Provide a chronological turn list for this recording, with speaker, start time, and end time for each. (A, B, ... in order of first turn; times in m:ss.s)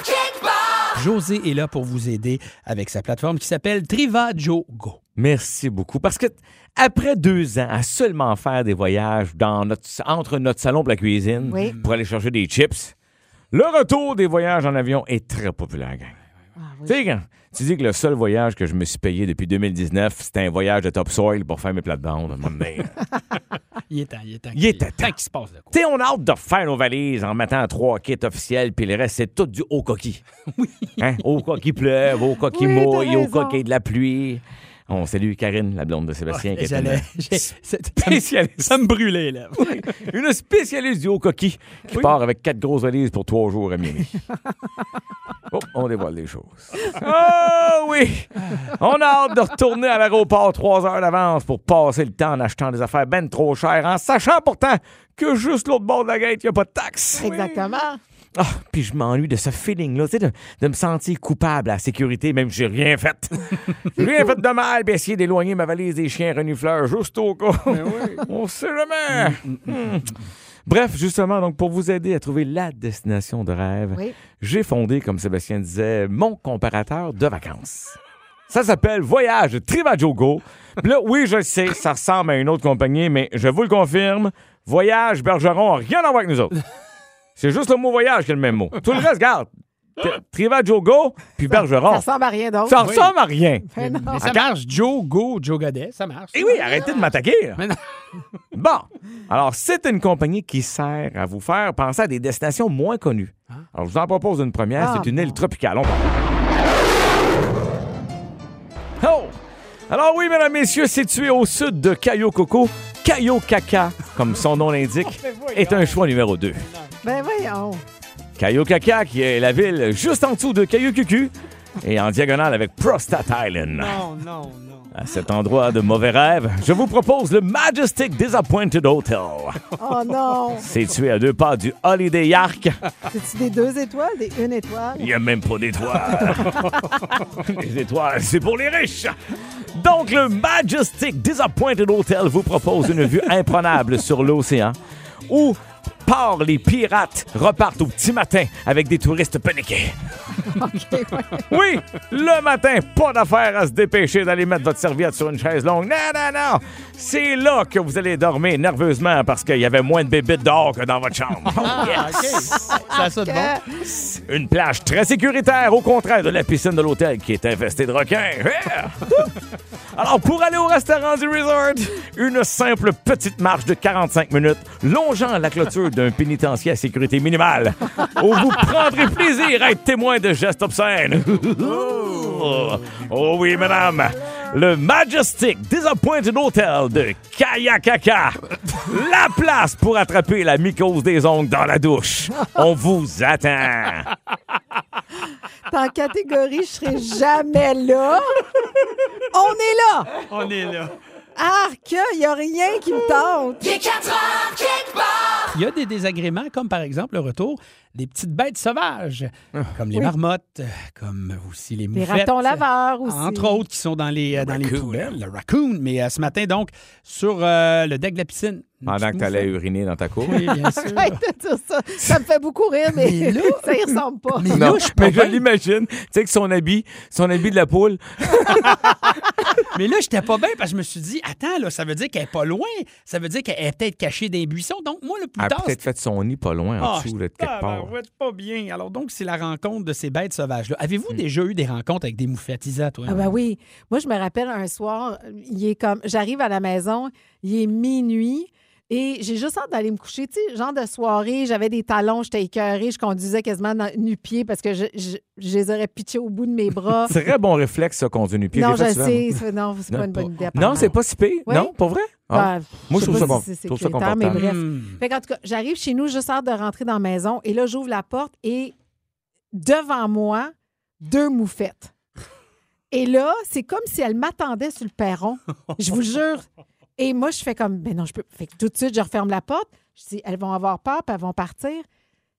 0:00.9-0:05.0 A
0:05.2-0:12.9 B
0:11.5-0:11.8 C
0:11.5-0:11.9 A
0:13.5-0:16.1 B
0:16.6-0:17.0 C
0:16.8-0:23.0 B
0:23.9-0:25.7 A
0:24.5-0:25.1 B
0:25.7-0:30.2 B
0:30.5-0:31.2 A
0:31.0-0:37.4 B
0:32.5-0:33.6 C
0:36.3-0:40.0 A
0:38.0-0:38.8 B
0:39.6-0:44.2 B
0:45.5-0:57.6 B
0:57.2-0:58.0 C
0:58.3-1:10.1 B
1:07.7-1:08.2 A
1:09.1-1:09.8 A
1:10.6-1:18.0 B
1:18.5-1:26.5 B
1:27.4-1:32.0 B
1:31.8-1:32.8 C
1:32.6-1:33.7 B
1:32.8-1:33.1 A
1:33.7-1:34.2 C
1:33.8-1:36.4 A
1:34.2-1:34.5 B
1:36.3-1:37.6 B
1:38.5-1:46.2 B
1:44.8-1:45.4 C
1:49.0-1:49.3 B
1:49.9-1:56.6 B
1:55.1-1:56.0 A
1:57.0-1:57.8 C
1:58.4-2:04.0 B
2:03.7-2:04.9 A
2:04.9-2:09.6 B
2:09.8-2:10.7 C
2:10.6-2:12.8 B
2:13.1-2:15.1 C
2:15.0-2:16.6 B
2:16.6-2:16.8 C
2:17.3-2:29.9 B
2:30.5-2:31.4 C
2:31.4-2:42.4 B
2:41.5-2:43.5 A
2:41.8-2:43.8 C
2:43.9-2:49.3 B
2:49.9-3:14.1 B
3:02.4-3:02.8 A
3:15.7-3:18.4 C
3:19.3-3:20.1 C
3:20.3-3:21.0 A
3:21.4-3:23.8 C
3:25.5-3:39.5 A
3:31.9-3:33.6 C
3:34.3-3:35.2 B
3:38.8-3:40.5 B
3:40.2-3:41.2 A
3:40.5-3:44.7 C
3:42.9-3:45.4 A
3:44.5-3:48.9 B
3:49.7-3:55.8 A
3:55.4-3:57.9 B
3:56.8-4:03.3 A
4:03.1-4:17.1 C
4:17.1-4:19.3 B
4:18.5-4:20.9 C
4:19.9-4:24.4 B
4:21.4-4:21.7 C
4:22.3-4:28.7 C
4:23.0-4:23.4 A
4:24.3-4:25.0 A
4:29.5-4:31.9 C
4:32.9-4:36.4 C
4:37.0-4:41.8 C